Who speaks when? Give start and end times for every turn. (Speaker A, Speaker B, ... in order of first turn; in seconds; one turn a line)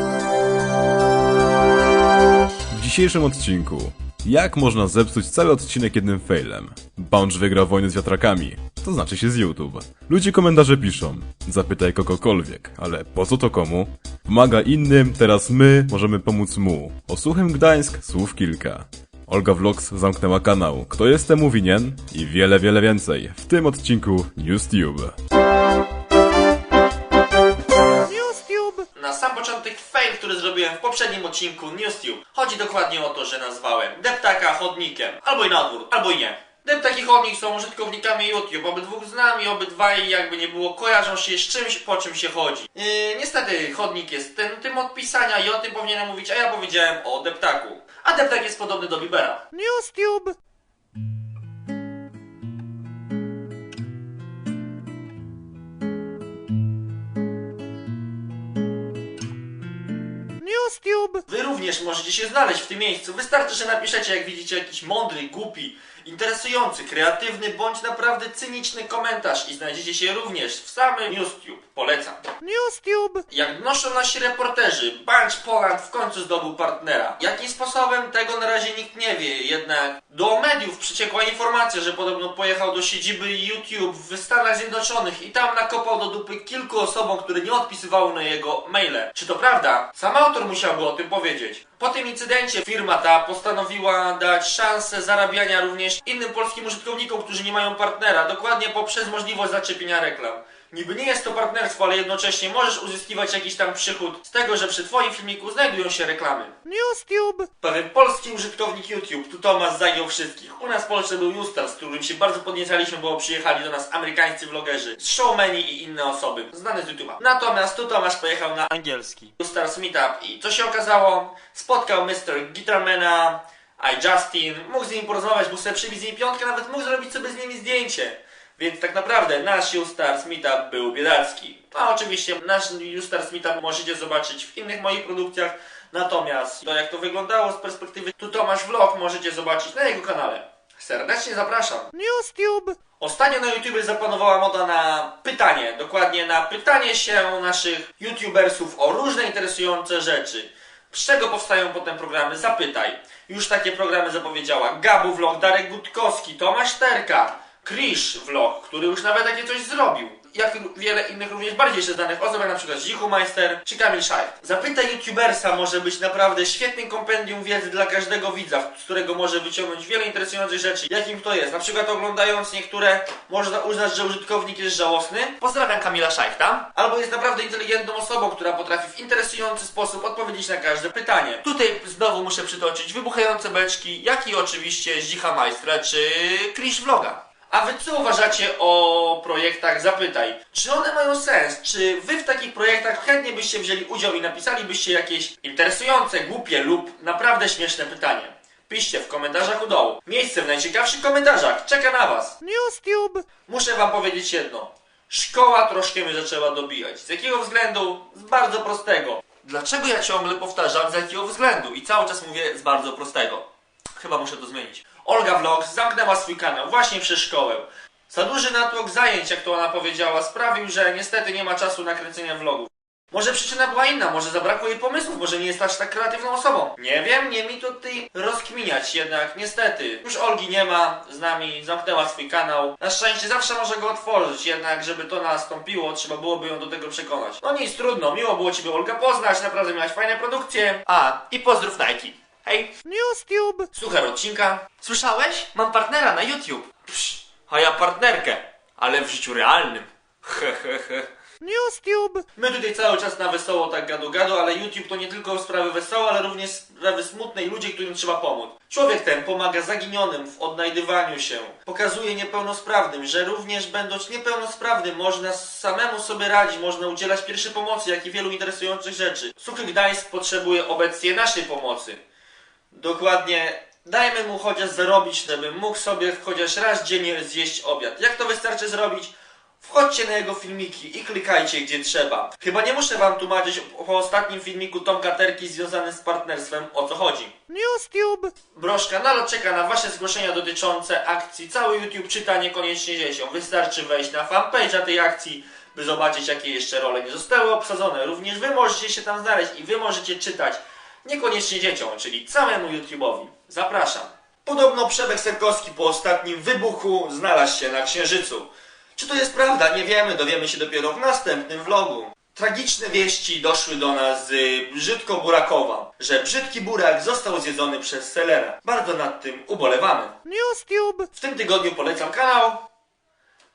Speaker A: 2.7-25.1
Speaker B: 28.1-28.8
Speaker C: 28.9-49.5
Speaker B: 49.6-50.4
Speaker B: 60.5-61.1
Speaker C: 61.2-72.3
Speaker B: 72.5-73.2
Speaker C: 73.2-106.6
Speaker B: 106.7-107.4
Speaker C: 107.6-142.0
Speaker B: 142.0-142.8
Speaker C: 143.0-202.4
Speaker B: 202.5-203.2
Speaker C: 203.5-213.4
Speaker C: 214.0-242.8
Speaker B: 242.9-243.7
Speaker C: 243.7-251.1
Speaker B: 251.5-252.2
Speaker C: 252.3-272.0
Speaker C: 272.7-287.4
Speaker B: 287.6-288.3
Speaker C: 288.5-320.2
Speaker B: 320.4-320.9
Speaker C: 321.1-322.6